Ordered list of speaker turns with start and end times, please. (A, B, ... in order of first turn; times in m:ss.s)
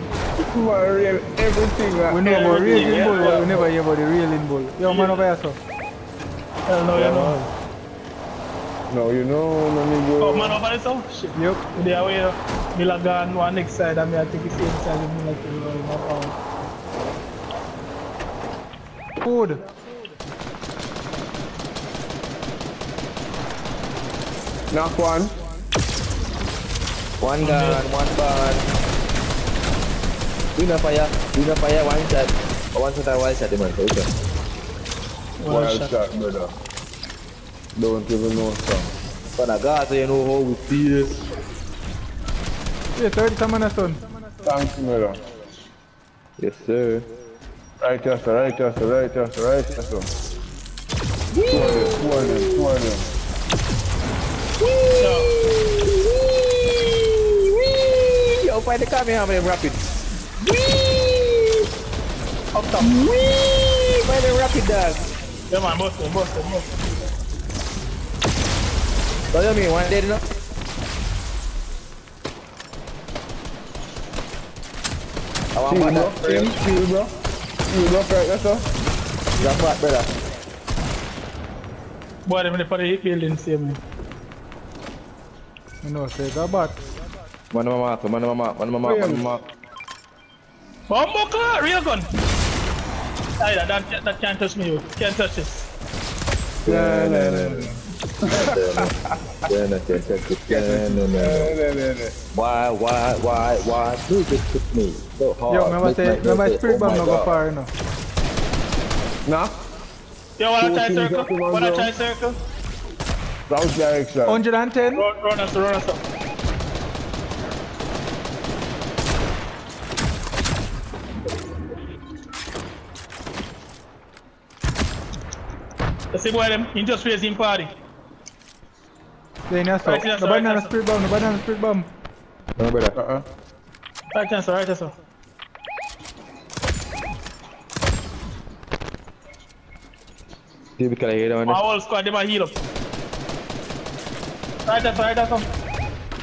0:00.5-0:03.7 A
0:02.1-0:05.6 B
0:02.2-0:03.6 C
0:04.8-0:05.2 C
0:06.7-0:07.5 C
0:06.9-0:07.4 A
0:08.9-0:10.6 A
0:10.2-0:16.4 C
0:11.4-0:11.6 B
0:19.2-0:19.6 B
0:24.7-0:25.4 A
0:27.2-0:28.7 D
0:27.4-0:27.8 C
0:30.6-0:34.1 D
0:35.4-0:35.9 C
0:35.5-0:36.5 A
0:37.8-0:38.9 A
0:39.4-0:41.2 D
0:43.0-0:44.0 B
0:44.4-0:45.2 A
0:46.4-0:47.1 D
0:47.8-0:50.1 A
0:51.3-0:52.7 D
0:51.5-0:53.1 A
0:54.6-0:59.8 D
0:55.0-0:55.3 C
1:00.4-1:01.7 D
1:02.5-1:02.9 C
1:02.8-1:05.1 D
1:05.5-1:06.7 C
1:09.3-1:10.2 D
1:15.5-1:16.6 D
1:15.7-1:17.1 A
1:17.7-1:18.6 A
1:19.4-1:20.1 D
1:22.3-1:23.8 C
1:25.8-1:26.8 B
1:27.5-1:29.4 D
1:28.8-1:29.3 A
1:30.9-1:32.1 C
1:33.4-1:35.7 C
1:36.7-1:37.7 D
1:36.7-1:38.8 A
1:38.3-1:38.9 D
1:39.5-1:41.6 D
1:40.5-1:42.1 A
1:42.3-1:47.4 D
1:45.5-1:47.7 B
1:49.2-1:49.6 A
1:50.4-1:52.4 C
1:50.6-1:51.9 A
1:53.5-1:54.4 A
1:54.2-1:55.0 B
1:55.0-1:56.0 C
2:06.1-2:07.7 C
2:09.5-2:11.9 B
2:09.8-2:10.7 C
2:12.6-2:13.0 D
2:13.0-2:13.2 A
2:14.1-2:15.0 C
2:20.8-2:21.6 D
2:21.5-2:22.6 C
2:24.7-2:25.5 C